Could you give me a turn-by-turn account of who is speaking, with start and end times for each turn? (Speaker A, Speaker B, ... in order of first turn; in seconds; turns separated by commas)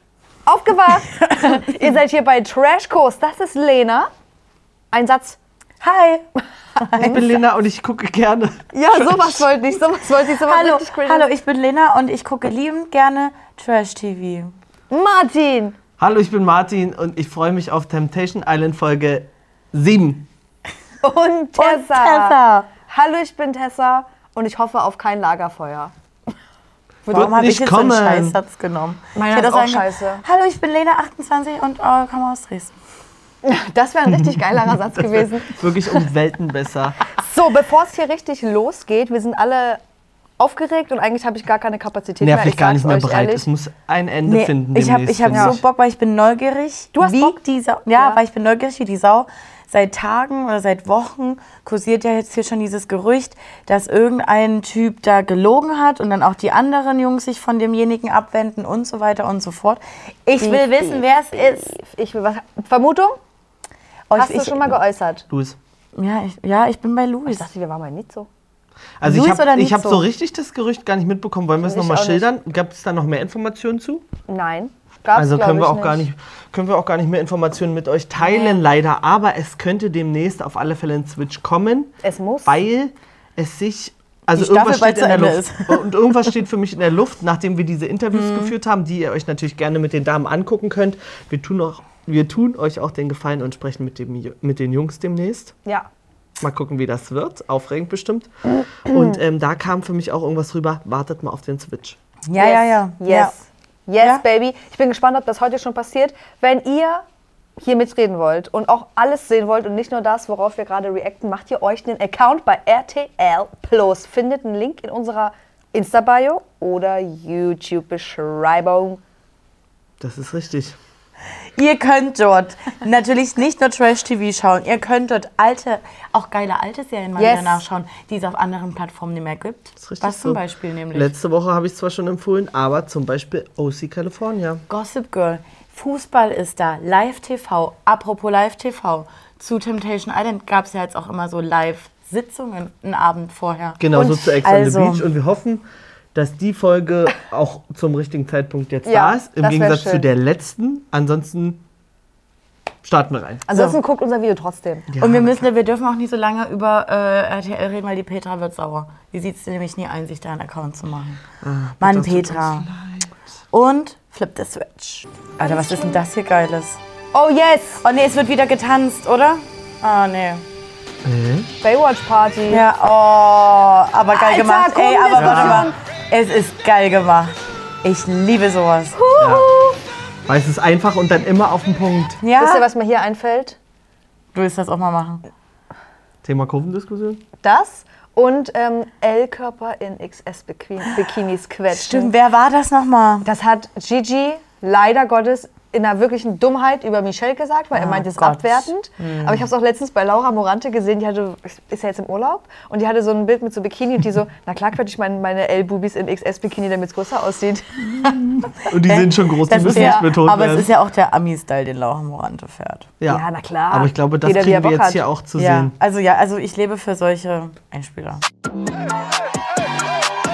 Speaker A: 0.5-4.1, Speaker A: 4.9-5.4, Speaker B: 5.8-6.2, Speaker A: 6.8-7.2, Speaker C: 7.0-9.5, Speaker A: 8.7-11.3, Speaker B: 10.4-14.6, Speaker A: 14.9-15.8, Speaker C: 16.0-20.3, Speaker A: 21.0-22.4, Speaker B: 21.6-22.7, Speaker A: 22.9-25.9, Speaker A: 27.1-27.3, Speaker C: 27.1-28.4, Speaker B: 27.1-32.8, Speaker A: 29.2-30.2, Speaker A: 33.4-36.0, Speaker C: 34.1-37.0, Speaker A: 37.2-39.8, Speaker A: 40.4-43.5, Speaker C: 42.2-45.6, Speaker B: 44.3-61.7, Speaker A: 47.0-47.4, Speaker A: 60.4-63.2, Speaker B: 64.1-64.8, Speaker A: 64.1-65.2, Speaker C: 65.3-65.6, Speaker B: 66.0-67.5, Speaker A: 67.3-68.3, Speaker C: 69.0-74.0, Speaker B: 69.0-70.0, Speaker A: 71.6-72.2, Speaker A: 74.3-76.1, Speaker C: 75.1-81.9, Speaker B: 78.3-78.6, Speaker A: 82.0-82.6, Speaker C: 82.5-95.5, Speaker B: 84.3-85.9, Speaker B: 88.1-88.5, Speaker C: 96.4-98.3, Speaker C: 98.8-102.0, Speaker A: 98.9-99.2, Speaker B: 102.3-103.3, Speaker A: 102.4-107.0, Speaker A: 107.6-119.0, Speaker C: 120.0-120.8, Speaker B: 121.6-131.1, Speaker A: 127.2-127.6, Speaker C: 129.8-130.4, Speaker C: 130.9-134.6, Speaker B: 134.7-145.1, Speaker C: 143.8-145.6, Speaker C: 146.1-151.6, Speaker A: 148.9-150.1, Speaker C: 152.8-153.5, Speaker A: 153.5-154.9, Speaker C: 154.9-155.5, Speaker B: 155.0-161.2, Speaker C: 161.4-163.2, Speaker B: 161.8-162.7, Speaker B: 163.5-166.8, Speaker A: 165.4-166.0, Speaker A: 167.1-167.9, Speaker B: 167.8-170.4, Speaker C: 171.0-171.5, Speaker A: 171.6-172.6, Speaker B: 172.5-179.0, Speaker A: 174.1-175.7, Speaker C: 175.2-175.7, Speaker A: 179.0-179.8, Speaker C: 179.2-179.5, Speaker C: 180.3-182.2, Speaker B: 182.2-182.7, Speaker A: 182.4-183.6, Speaker B: 184.3-185.2, Speaker C: 186.2-187.2, Speaker A: 187.4-192.1, Speaker B: 191.7-193.3, Speaker A: 193.2-208.1, Speaker B: 197.7-199.5, Speaker C: 208.6-210.7, Speaker B: 208.7-212.9, Speaker A: 209.6-210.1, Speaker C: 213.0-215.8, Speaker A: 213.1-215.0, Speaker B: 215.4-218.2